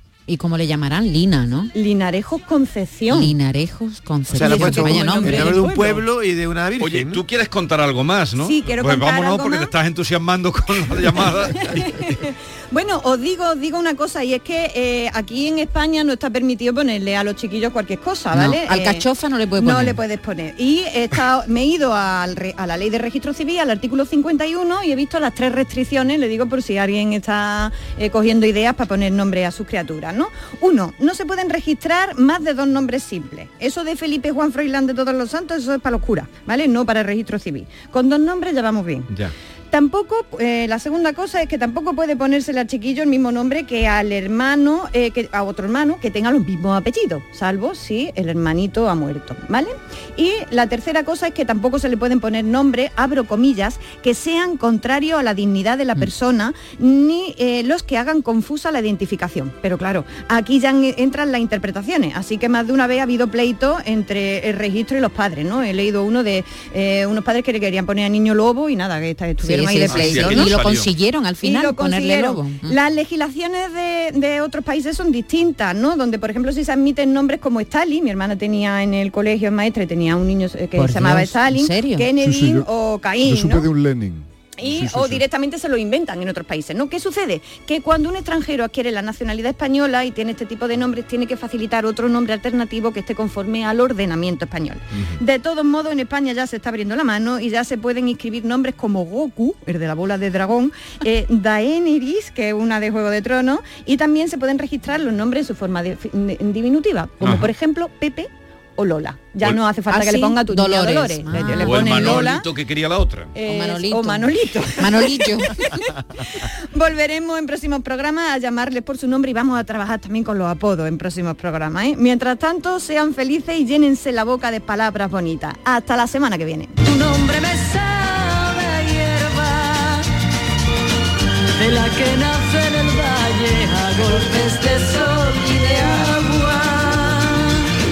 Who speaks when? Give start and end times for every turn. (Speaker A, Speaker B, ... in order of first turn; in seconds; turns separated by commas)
Speaker A: 0.3-1.7, Speaker B: 1.8-3.4, Speaker A: 3.1-5.7, Speaker C: 4.3-7.2, Speaker B: 4.3-6.0, Speaker D: 6.8-11.8, Speaker B: 8.4-9.7, Speaker B: 11.6-19.1, Speaker A: 18.3-20.0, Speaker B: 19.6-39.1, Speaker B: 39.7-70.5, Speaker A: 69.4-72.8, Speaker D: 69.9-70.9, Speaker B: 71.4-83.6, Speaker A: 80.8-82.1, Speaker E: 82.2-82.7, Speaker E: 83.2-85.2, Speaker B: 84.6-112.5, Speaker D: 107.2-107.5, Speaker A: 109.9-112.1, Speaker D: 111.6-113.3, Speaker B: 113.4-115.8, Speaker A: 113.4-115.6, Speaker B: 116.7-126.7, Speaker F: 126.8-130.1, Speaker F: 131.6-137.6